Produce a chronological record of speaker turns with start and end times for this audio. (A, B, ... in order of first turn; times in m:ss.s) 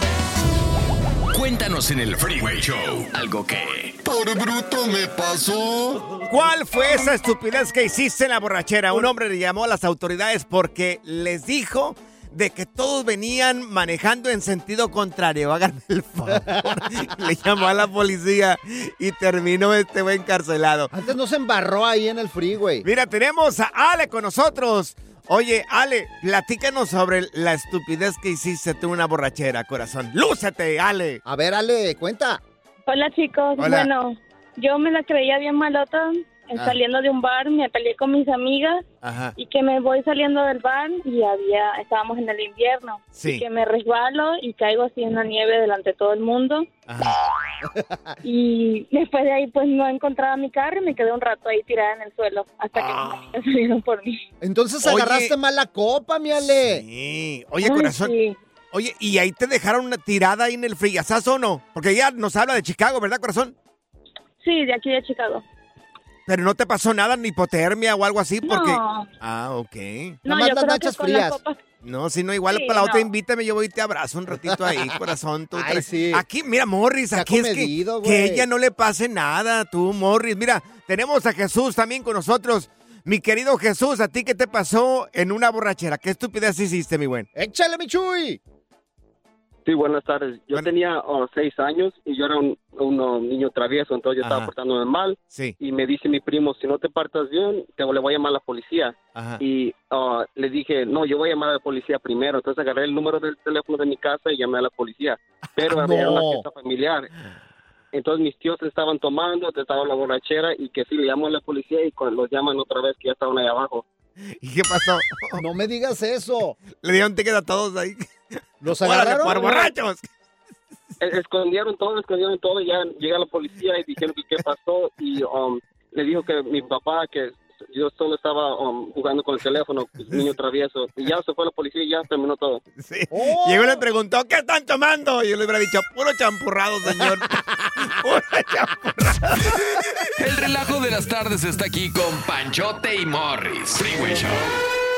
0:01.3-0:04.0 A
0:04.0-0:06.2 B
0:06.3-0:20.9 C
0:16.3-0:17.1 D
0:20.9-0:22.9 D
0:22.8-0:31.2 C
0:31.2-0:32.4 D
0:32.9-0:38.8 E
0:33.6-0:33.9 C
0:39.0-0:39.3 C
0:39.4-0:46.7 E
0:43.2-0:43.4 C
0:46.9-0:47.2 C
0:47.8-0:48.1 D
0:48.2-0:54.2 E
0:52.8-0:53.0 C
0:54.4-0:56.8 D
0:54.8-0:55.3 C
0:56.6-0:58.2 C
0:57.6-0:58.4 E
0:58.7-1:03.6 C
1:04.4-1:05.4 E
1:06.3-1:10.2 C
1:08.4-1:09.1 E
1:10.2-1:11.6 E
1:10.3-1:11.4 D
1:11.8-1:27.3 C
1:12.5-1:13.1 E
1:14.5-1:14.9 D
1:15.6-1:16.2 D
1:17.1-1:18.5 D
1:27.4-1:28.4 D
1:29.7-1:47.1 F
1:34.2-1:34.5 C
1:39.2-1:39.4 C
1:45.6-1:46.4 D
1:47.9-1:53.8 F
1:54.3-1:55.4 C
1:55.4-1:56.6 D
1:56.8-1:58.1 C
1:58.6-1:59.7 D
1:58.7-2:00.1 C
2:01.0-2:12.6 F
2:12.8-2:19.8 C
2:13.1-2:13.8 D
2:20.2-2:24.4 A